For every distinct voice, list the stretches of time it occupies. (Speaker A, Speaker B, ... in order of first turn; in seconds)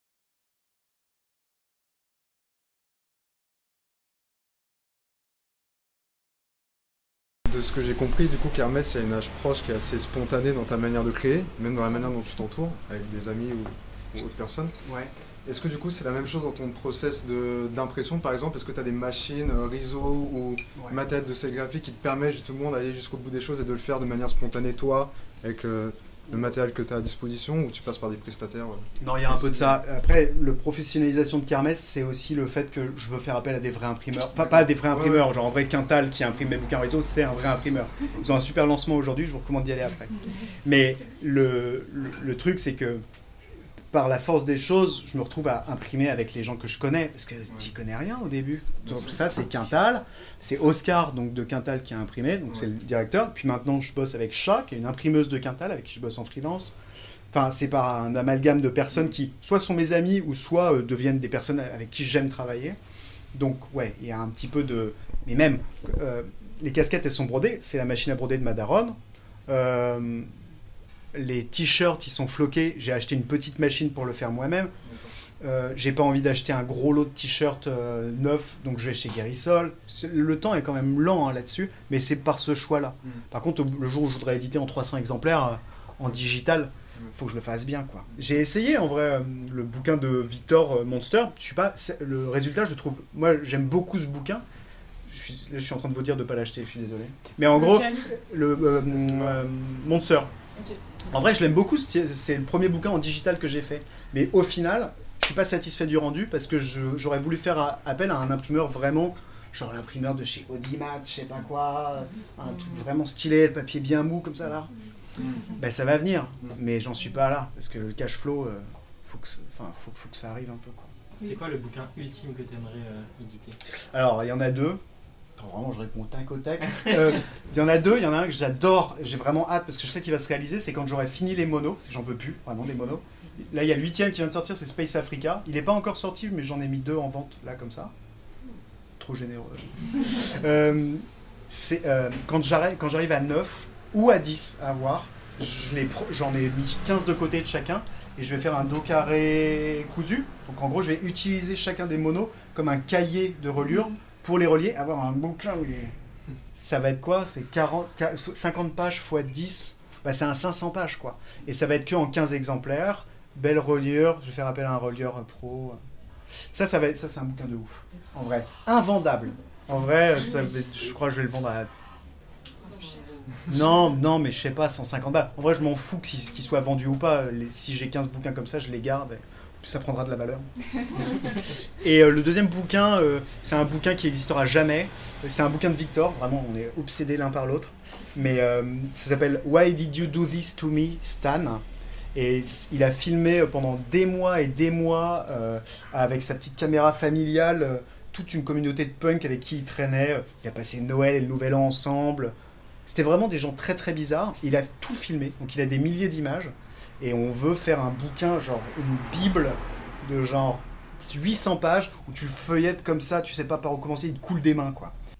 Speaker A: 7.5-14.7, 15.4-29.8, 34.6-35.2, 48.9-49.1, 74.8-75.1
Speaker B: 14.8-15.1, 29.0-43.0, 43.9-56.7, 57.3-62.8, 63.3-70.3, 71.1-74.7, 75.4-94.4, 95.1-100.3, 101.0-114.7, 115.5-120.9, 123.9-124.8, 125.4-137.9, 139.0-155.9, 156.6-165.8, 166.4-171.7, 173.4-180.5, 181.0-202.3, 202.9-214.9
Speaker C: 121.2-123.6